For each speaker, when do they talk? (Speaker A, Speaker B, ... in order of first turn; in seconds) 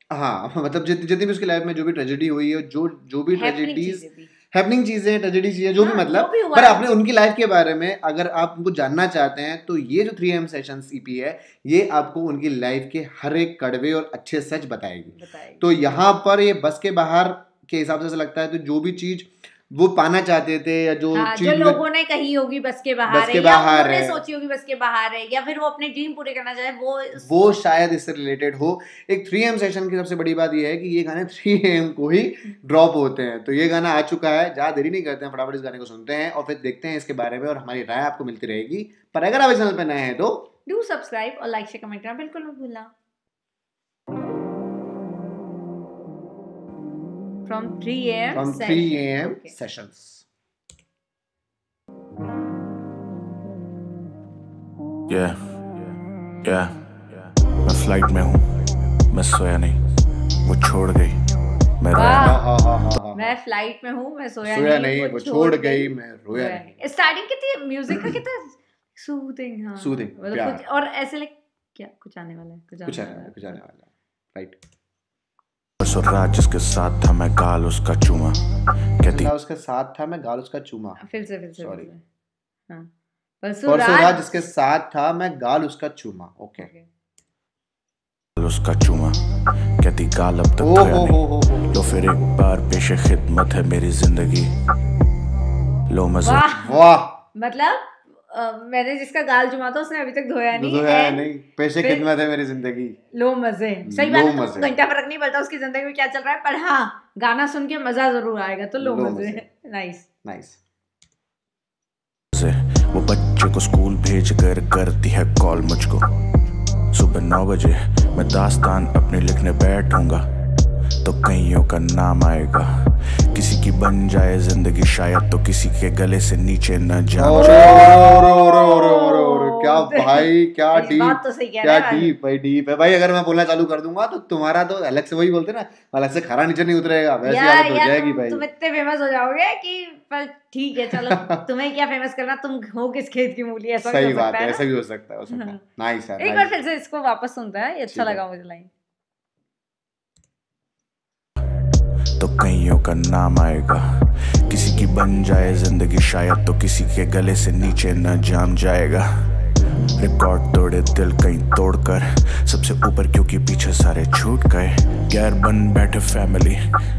Speaker A: 0.1-21.8, 23.1-24.2, 27.2-40.5, 48.3-50.2, 62.0-63.3, 64.5-66.6, 69.8-70.6, 72.9-73.8, 79.1-81.0, 81.6-81.9, 83.7-86.7, 90.6-91.7, 96.7-97.1, 100.5-103.0, 103.8-104.7, 108.8-109.4, 110.3-110.6, 127.2-138.4, 141.2-141.4, 143.9-146.5, 147.9-148.2
Speaker B: 3.3-4.3, 5.8-7.0, 15.1-15.7, 21.1-27.6, 40.7-42.9, 47.5-49.5, 61.9-62.5, 63.1-73.6, 81.0-82.0, 83.4-84.3, 86.6-86.9, 96.2-96.8, 97.3-102.1, 103.1-110.1, 127.4-132.2, 137.2-144.7, 145.3-145.6, 146.2-148.7
Speaker C: 55.1-55.4, 56.4-58.5, 59.1-59.8, 60.4-61.2, 61.8-62.3, 75.8-78.4, 79.0-79.3, 88.4-89.2, 89.8-94.5, 95.9-96.6, 112.3-116.0, 116.9-120.2, 121.0-122.7, 123.3-127.8, 152.2-153.8, 154.5-159.1, 160.0-166.6